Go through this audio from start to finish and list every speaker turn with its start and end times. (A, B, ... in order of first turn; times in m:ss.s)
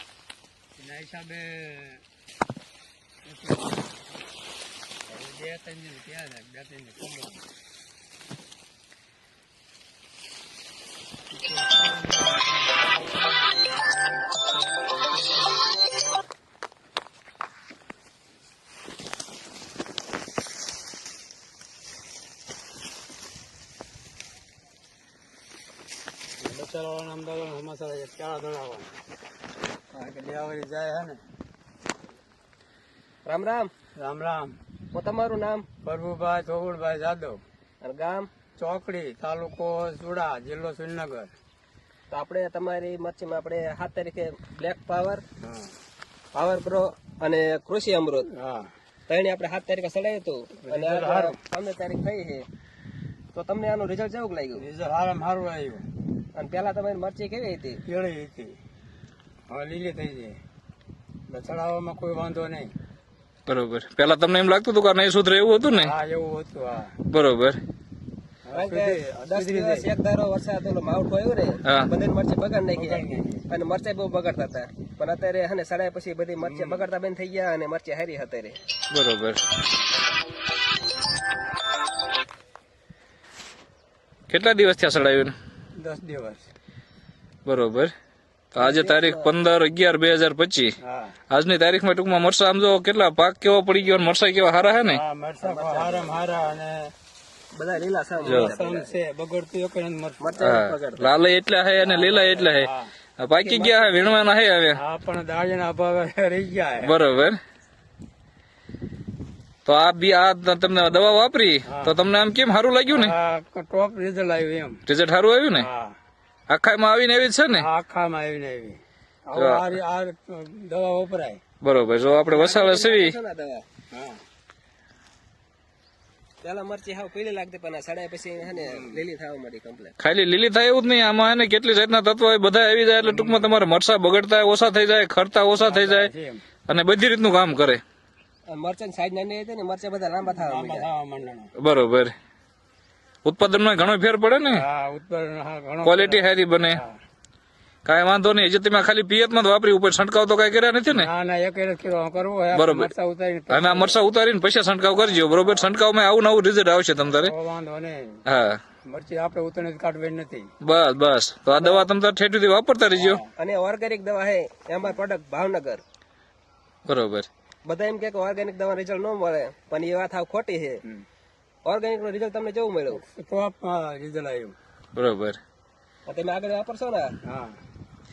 0:00.8-0:02.0 A
0:03.2-0:03.9 A
0:05.1-0:07.4 A
0:11.3-0:15.8 A
0:26.4-0:28.9 A
0:29.9-0:30.3 B
0:30.2-0:31.2 A
0:33.2-0:33.7 B
0:34.0-0:34.6 A
0:34.9-0:35.7 B
0:35.8-0:37.4 A
0:37.8-0:38.3 B
0:38.6-0:41.3 A
0:42.1-0:45.2 B
0:45.4-0:45.7 A
0:46.4-0:48.3 B
0:48.3-0:48.7 A
0:49.1-0:52.5 B
0:50.6-0:51.4 A
0:53.3-0:54.6 B
0:54.6-0:55.8 A
0:56.3-0:57.8 B
0:57.9-0:58.6 A
0:59.5-1:00.4 A
1:01.3-1:02.8 A
1:03.5-1:05.9 C
1:05.7-1:07.0 A
1:07.1-1:07.6 C
1:08.5-1:09.9 A
1:08.5-1:18.6 B
1:12.7-1:13.5 A
1:16.4-1:16.8 A
1:18.9-1:19.4 C
1:24.3-1:25.3 C
1:25.8-1:26.5 A
1:27.4-1:27.9 C
1:28.5-1:30.8 C
1:28.6-1:29.3 B
1:30.8-1:31.2 A
1:31.3-1:35.0 C
1:34.9-1:36.9 A
1:35.4-1:36.5 B
1:37.6-1:39.0 B
1:38.2-1:40.5 A
1:40.2-1:41.1 B
1:40.4-1:44.8 C
1:41.8-1:42.9 A
1:43.4-1:44.2 B
1:44.7-1:47.0 A
1:46.8-1:47.4 C
1:49.7-1:53.1 C
1:51.6-1:52.0 A
1:52.9-1:54.8 A
1:54.9-1:55.7 C
1:55.6-1:56.0 A
1:56.5-1:57.7 C
1:57.5-2:01.4 A
1:59.4-1:59.7 C
2:01.6-2:03.2 C
2:02.3-2:03.6 B
2:03.9-2:04.2 A
2:06.4-2:10.0 B
2:08.5-2:09.0 A
2:10.0-2:16.1 C
2:13.0-2:13.5 A
2:15.5-2:16.5 A
2:16.7-2:17.8 C
2:18.5-2:20.9 B
2:20.4-2:21.5 A
2:21.6-2:22.1 C
2:23.2-2:24.6 C
2:24.5-2:27.0 A
2:25.8-2:26.8 C
2:27.8-2:31.1 C
2:30.9-2:34.0 A
2:32.5-2:32.9 C
2:33.5-2:37.3 C
2:35.0-2:35.7 A
2:37.2-2:38.2 A
2:38.3-2:38.6 C
2:38.9-2:40.5 A
2:40.6-2:43.2 C
2:41.6-2:41.9 A
2:43.0-2:43.3 A
2:43.4-2:45.8 B
2:46.9-2:47.3 C
2:47.6-2:50.8 B
2:51.6-2:53.0 B
2:52.9-2:54.6 A
2:55.0-2:55.4 C
2:56.1-2:57.2 B
2:57.2-2:57.6 A